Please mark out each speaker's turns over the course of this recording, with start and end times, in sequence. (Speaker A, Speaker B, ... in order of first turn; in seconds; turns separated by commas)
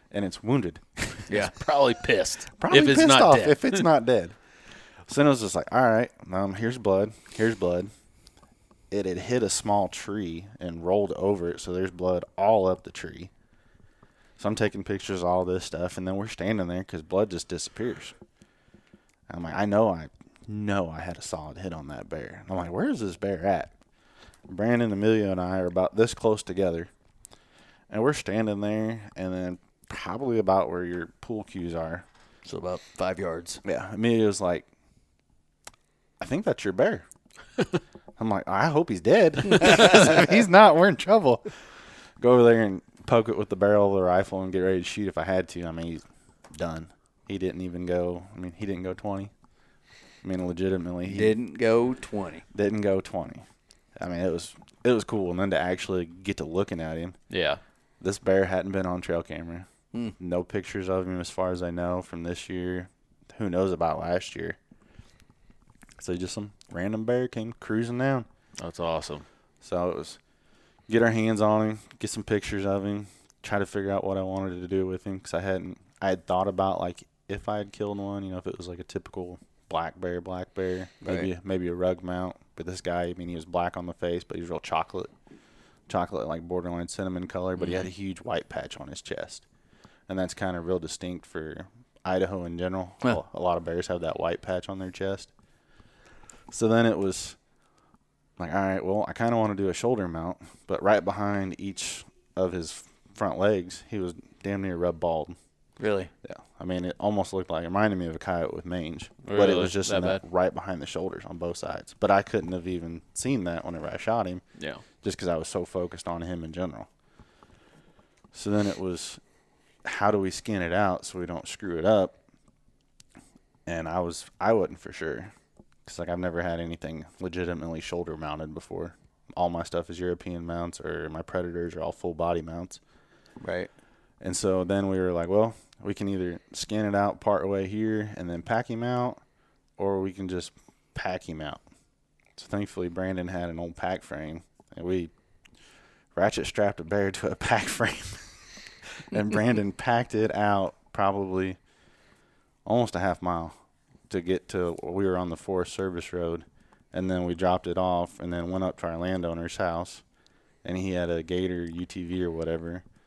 Speaker A: 0.1-1.3, Speaker B: 1.3-1.5, Speaker C: 1.3-3.9, Speaker A: 2.6-4.3, Speaker A: 5.0-7.9, Speaker A: 8.9-13.3, Speaker A: 14.4-18.1, Speaker A: 19.3-23.7, Speaker A: 24.5-26.9, Speaker A: 27.9-32.0, Speaker B: 32.4-33.6, Speaker A: 33.6-34.7, Speaker A: 36.2-37.0, Speaker A: 38.2-41.5, Speaker A: 42.2-49.3, Speaker A: 50.2-51.4, Speaker B: 51.0-52.4, Speaker A: 52.5-53.4, Speaker A: 54.0-57.2, Speaker C: 57.3-57.6, Speaker A: 58.0-59.7, Speaker A: 60.2-64.6, Speaker A: 66.0-68.3, Speaker C: 68.6-69.2, Speaker A: 69.6-70.2, Speaker A: 70.9-85.1, Speaker B: 81.0-81.3, Speaker A: 85.9-89.4, Speaker A: 90.1-95.3, Speaker A: 96.5-97.4, Speaker A: 98.4-105.3, Speaker B: 105.8-106.1, Speaker A: 106.2-114.4, Speaker C: 109.2-110.2, Speaker C: 114.6-114.8, Speaker A: 115.0-116.9, Speaker A: 118.3-119.2, Speaker A: 119.8-122.1, Speaker A: 123.7-125.3, Speaker A: 125.8-132.8, Speaker B: 133.4-133.7, Speaker A: 134.2-139.2, Speaker A: 139.8-141.6, Speaker A: 142.3-145.1, Speaker A: 146.1-151.6, Speaker A: 152.6-153.5, Speaker A: 154.1-160.0, Speaker A: 160.6-162.8